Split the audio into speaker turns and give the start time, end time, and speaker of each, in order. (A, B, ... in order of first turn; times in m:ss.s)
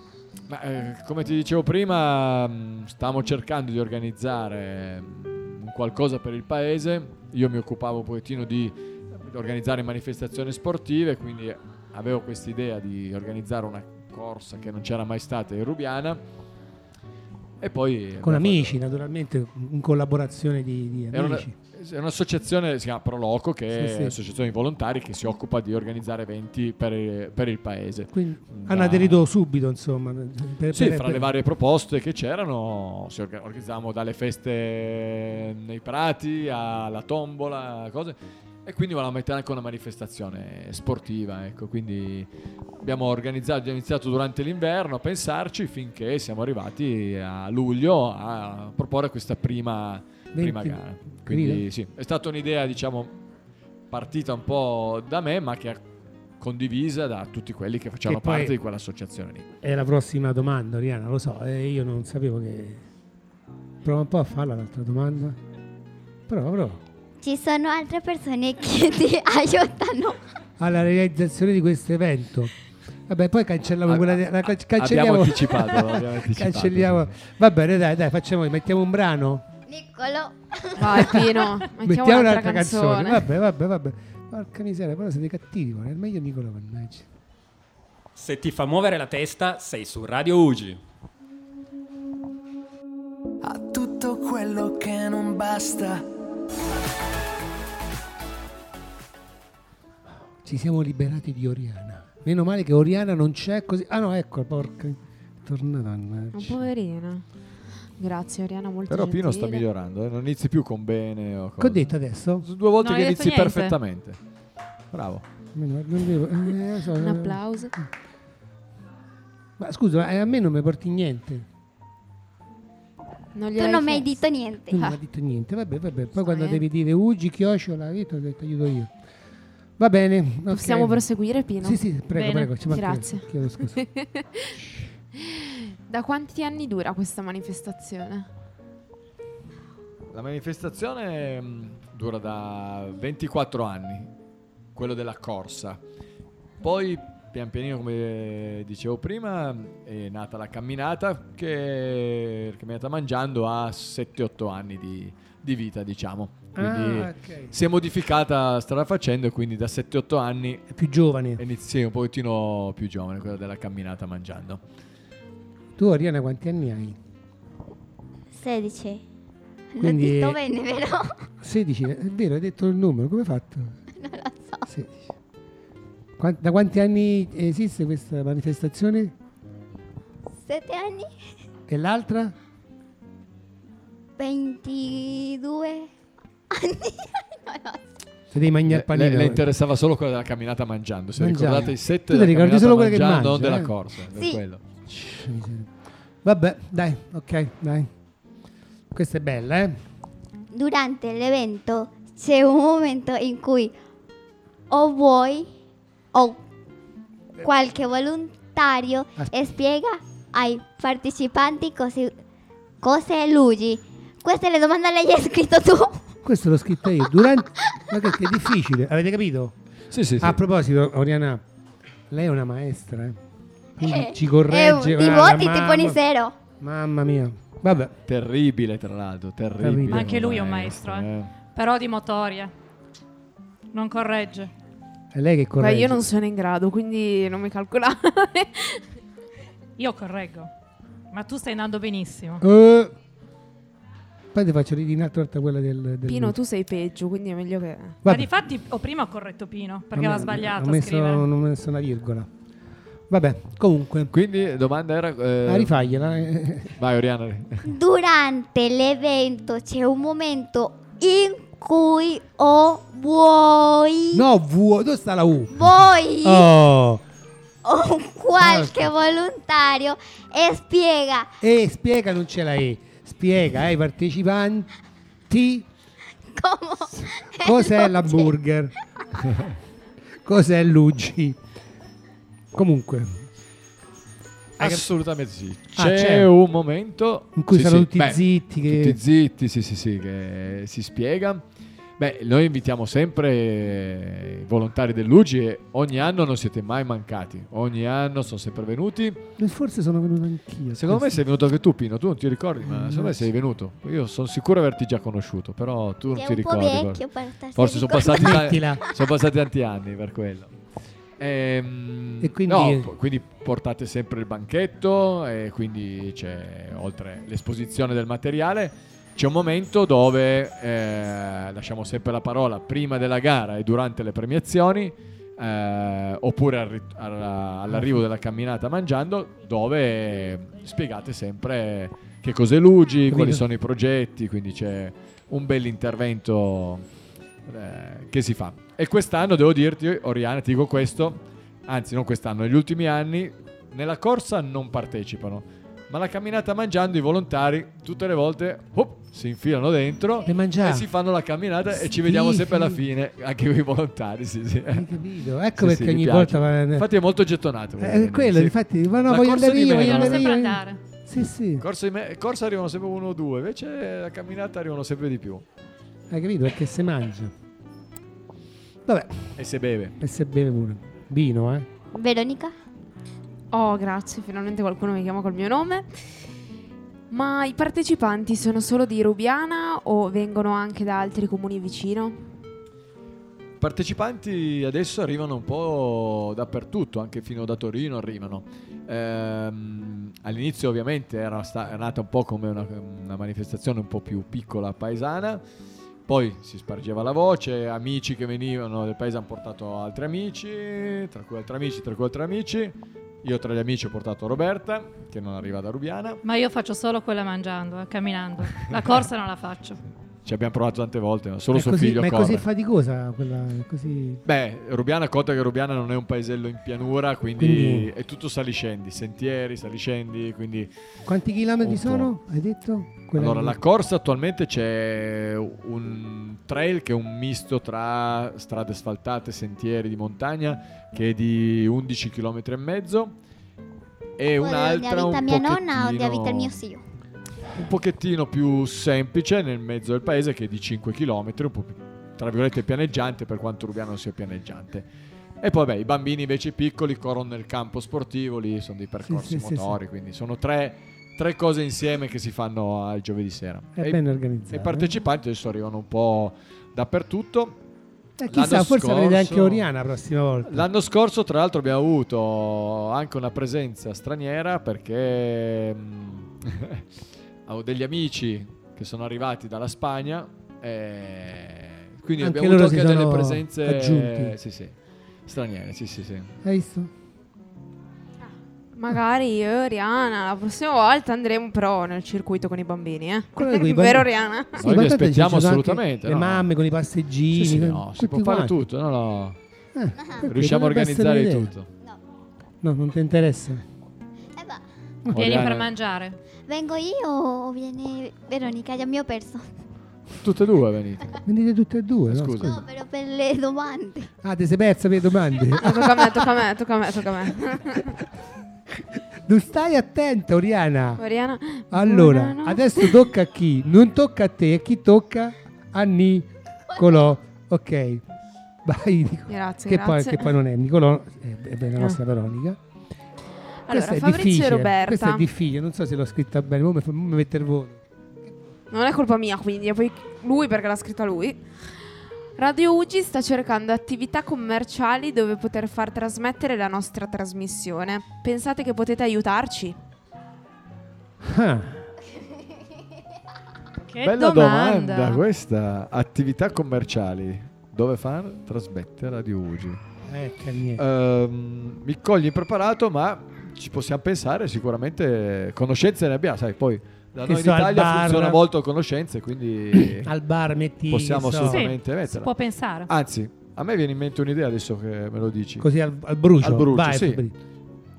0:00.5-0:16.2 A
0:17.6-0:18.8 A
0:18.2-0:21.5 B
0:21.1-0:29.2 A
0:23.7-0:24.2 B
0:28.1-0:31.3 B
0:30.7-0:42.3 A
0:42.8-0:53.1 A
0:50.3-0:51.6 B
0:53.9-0:55.8 A
0:56.4-0:59.5 A
0:58.0-0:58.6 B
0:59.6-1:02.8 B
1:03.8-1:05.4 B
1:06.3-1:06.8 B
1:07.2-1:10.2 C
1:10.6-1:12.5 B
1:13.1-1:19.5 B
1:13.9-1:17.1 A
1:19.7-1:21.2 C
1:20.8-1:23.3 D
1:21.0-1:21.3 B
1:21.8-1:27.1 B
1:28.2-1:30.8 E
1:33.4-1:36.1 F
1:40.4-1:46.7 B
1:46.3-1:47.2 D
1:48.0-1:49.6 D
1:48.9-1:54.2 A
1:51.6-1:52.5 B
1:52.8-1:53.8 G
1:54.9-1:55.2 A
1:55.5-1:57.9 B
1:56.9-1:57.7 D
1:59.6-2:01.5 B
2:03.4-2:04.2 D
2:03.6-2:04.9 C
2:04.7-2:08.9 B
2:06.2-2:06.6 D
2:09.8-2:11.0 B
2:10.5-2:11.8 D
2:11.6-2:13.8 B
2:12.1-2:12.6 G
2:12.7-2:14.5 D
2:14.5-2:14.9 B
2:15.2-2:18.3 D
2:20.1-2:24.1 A
2:24.8-2:25.8 A
2:26.6-2:40.7 A
2:36.6-2:37.5 B
2:40.7-2:41.4 B
2:41.4-2:44.6 A
2:45.8-2:47.0 B
2:48.3-2:49.0 C
2:49.7-2:51.2 C
2:49.8-2:50.4 B
2:51.4-2:53.8 B
2:54.0-2:54.7 C
2:54.7-2:55.1 B
2:56.2-2:59.1 B
3:00.4-3:01.1 C
3:01.7-3:02.4 B
3:04.2-3:05.9 C
3:06.5-3:07.8 C
3:08.3-3:09.4 B
3:08.7-3:14.6 A
3:11.2-3:13.7 B
3:14.9-3:15.7 B
3:16.2-3:17.9 B
3:18.9-3:19.8 B
3:20.5-3:23.7 C
3:24.7-3:25.5 C
3:26.1-3:26.4 C
3:27.4-3:32.1 C
3:32.8-3:36.0 C
3:36.2-3:39.6 B
3:39.9-3:40.4 A
3:40.2-3:41.4 B
3:42.1-3:43.2 B
3:43.8-3:46.0 B
3:43.8-3:46.4 C
3:46.6-3:47.9 B
3:48.1-3:51.3 A
3:49.6-3:50.1 B
3:49.9-3:52.5 G
3:53.7-3:54.5 G
3:55.1-3:56.1 B
3:55.6-3:58.8 D
3:59.8-4:00.5 G
4:01.1-4:02.4 G
4:02.4-4:02.9 B
4:04.3-4:06.4 B
4:06.1-4:08.0 D
4:08.0-4:08.3 B
4:08.0-4:11.2 G
4:09.9-4:12.3 B
4:13.1-4:14.1 B
4:14.1-4:15.9 A
4:15.5-4:16.8 B
4:16.8-4:17.7 A
4:17.6-4:24.3 C
4:24.1-4:27.0 B
4:25.5-4:26.6 C
4:27.6-4:31.3 C
4:28.4-4:28.9 B
4:31.4-4:34.7 B
4:35.3-4:35.7 B
4:36.3-4:38.3 C
4:37.0-4:38.7 B
4:40.2-4:41.4 B
4:42.5-4:43.3 B
4:44.6-4:44.9 B
4:44.6-4:51.4 A
4:45.8-4:46.3 B
4:47.4-4:49.0 B
4:52.0-4:59.2 A
4:59.4-5:01.2 B
5:00.7-5:07.0 A
5:02.6-5:03.3 B
5:06.1-5:08.7 C
5:07.6-5:10.5 A
5:08.0-5:08.8 B
5:11.2-5:36.8 A
5:12.2-5:12.9 B
5:27.7-5:28.0 B
5:33.1-5:33.4 B
5:37.5-5:54.9 A
5:50.2-5:50.9 B
5:51.7-5:52.8 B
5:54.7-5:56.9 B
5:55.6-6:00.4 A
5:57.8-6:01.6 B
5:59.7-6:00.8 G
6:01.6-6:05.4 A
6:06.1-6:07.3 B
6:08.9-6:09.3 B
6:09.4-6:10.0 A
6:10.0-6:11.7 B
6:11.9-6:12.6 C
6:13.5-6:15.9 D
6:17.1-6:22.3 D
6:23.6-6:35.4 A
6:36.1-6:46.2 A
6:46.2-6:49.8 G
6:50.2-6:52.4 A
6:51.5-6:54.2 B
6:54.2-7:00.7 A
6:57.4-6:57.9 B
7:01.1-7:03.6 B
7:01.6-7:02.1 A
7:03.2-7:13.2 A
7:14.2-7:16.6 A
7:14.4-7:16.8 C
7:17.6-7:24.9 A
7:25.4-7:37.6 A
7:29.0-7:29.8 B
7:33.8-7:34.9 B
7:38.2-7:40.7 B
7:38.3-7:39.7 A
7:40.4-7:46.9 A
7:47.5-7:56.4 A
7:52.2-7:54.4 B
7:56.4-7:56.9 B
7:58.7-8:04.7 D
8:03.4-8:08.6 B
8:04.6-8:06.5 A
8:07.3-8:09.4 A
8:09.7-8:11.5 B
8:10.3-8:11.7 A
8:12.6-8:13.6 B
8:14.4-8:14.6 C
8:15.1-8:15.4 B
8:15.1-8:15.7 A
8:15.1-8:16.2 G
8:16.5-8:19.5 C
8:20.2-8:21.2 A
8:21.2-8:22.6 B
8:22.1-8:22.6 A
8:22.4-8:24.1 C
8:24.2-8:26.2 B
8:25.6-8:28.0 D
8:28.7-8:31.0 B
8:31.0-8:33.1 D
8:31.7-8:38.0 B
8:38.6-8:42.6 B
8:39.3-8:40.3 D
8:43.7-8:45.2 D
8:43.7-8:47.8 B
8:48.7-8:51.5 D
8:52.4-8:59.8 D
9:01.2-9:01.9 B
9:03.8-9:05.2 G
9:04.0-9:09.8 A
9:10.1-9:10.8 B
9:10.8-9:20.1 A
9:17.2-9:18.4 B
9:19.8-9:21.6 B
9:20.9-9:22.3 A
9:21.5-9:22.9 G
9:22.9-9:25.7 A
9:25.6-9:27.3 B
9:26.4-9:27.2 A